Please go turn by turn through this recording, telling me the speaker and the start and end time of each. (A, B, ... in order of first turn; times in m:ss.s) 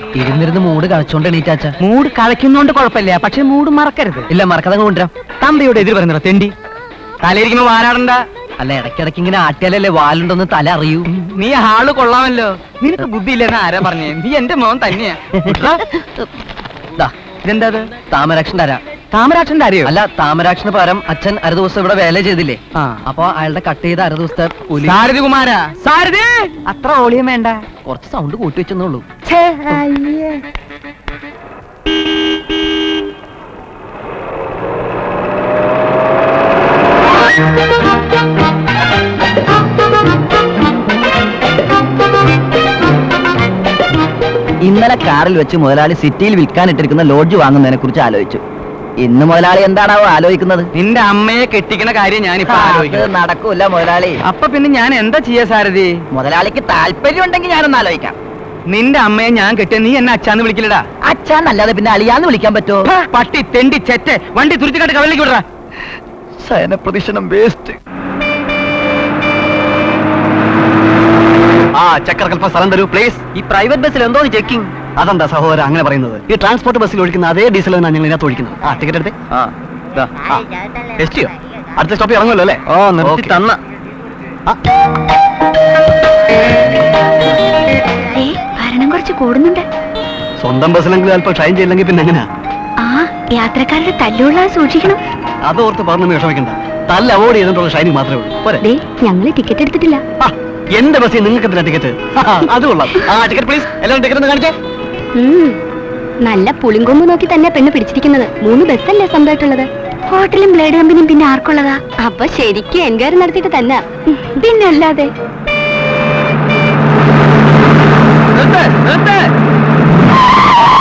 0:00.1-0:01.8 A
0:01.8-0:04.3 B
0:04.3-0:05.1 A
0:05.4-0:06.5 B
0:07.2-0:08.2 B
0:08.6-0:11.1 A
0:11.1-0:15.2 B
0:15.4-0:16.3 A
0:17.4-0:17.9 B
0:18.1-0:18.8 A
0:19.1-0:19.9 B
0:19.8-0:25.0 A
0:22.8-0:23.0 B
0:24.7-0:27.6 B
0:27.8-0:29.0 A
0:29.3-0:30.3 B
0:44.6-0:48.4 C
0:49.0-0:50.7 C
0:50.8-0:53.1 B
0:52.5-0:54.2 C
0:54.2-0:56.0 B
0:56.1-0:58.2 C
0:58.7-1:00.8 B
1:01.1-1:02.9 C
1:02.8-1:05.4 B
1:06.5-1:07.5 A
1:07.4-1:07.7 D
1:11.8-1:13.2 D
1:13.3-1:14.7 A
1:15.0-1:19.1 D
1:21.0-1:23.4 D
1:22.7-1:23.6 A
1:28.1-1:29.6 E
1:30.4-1:32.3 D
1:32.8-1:35.0 E
1:35.4-1:38.6 D
1:38.6-1:40.0 E
1:40.2-1:44.6 D
1:45.2-1:45.6 E
1:46.2-1:55.1 E